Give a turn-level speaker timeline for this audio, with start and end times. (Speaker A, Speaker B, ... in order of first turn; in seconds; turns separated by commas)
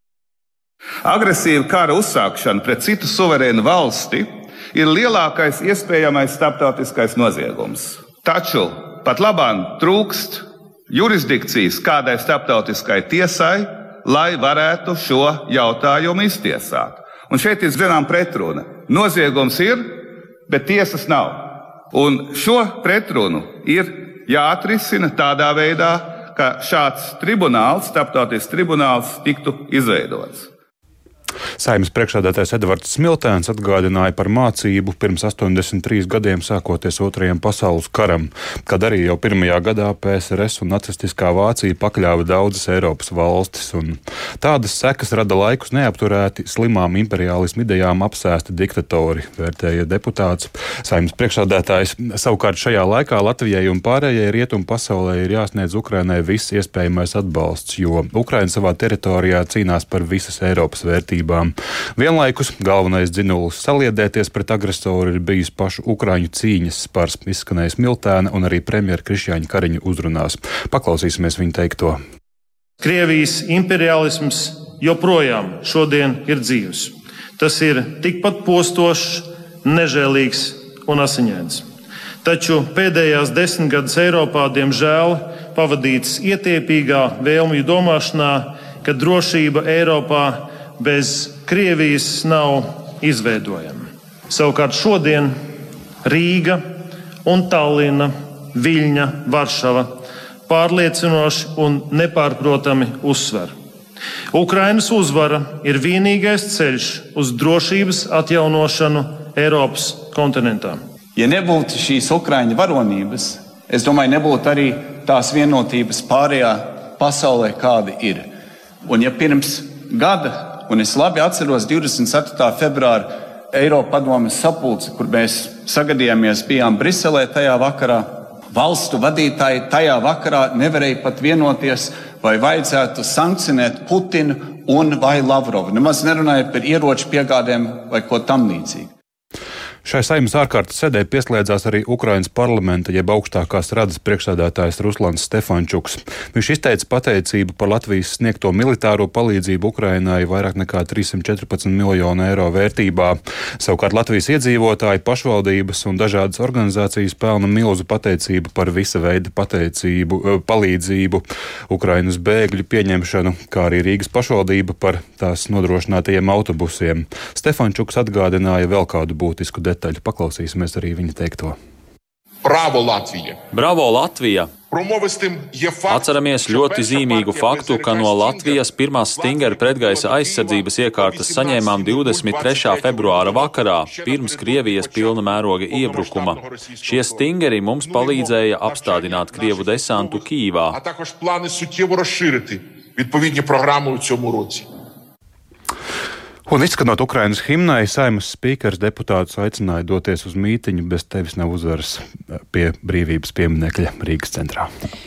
Speaker A: 1.1-30.5, Speaker B: 31.6-72.0, Speaker C: 72.8-81.7, Speaker C: 82.2-95.3, Speaker C: 96.0-96.7, Speaker C: 97.2-99.9, Speaker C: 100.5-103.5, Speaker C: 104.3-110.8, Speaker D: 111.2-118.3, Speaker D: 118.8-138.9, Speaker B: 139.8-171.6, Speaker E: 172.4-173.4, Speaker F: 173.5-174.5, Speaker E: 174.7-194.7, Speaker F: 175.9-190.8, Speaker B: 196.5-204.7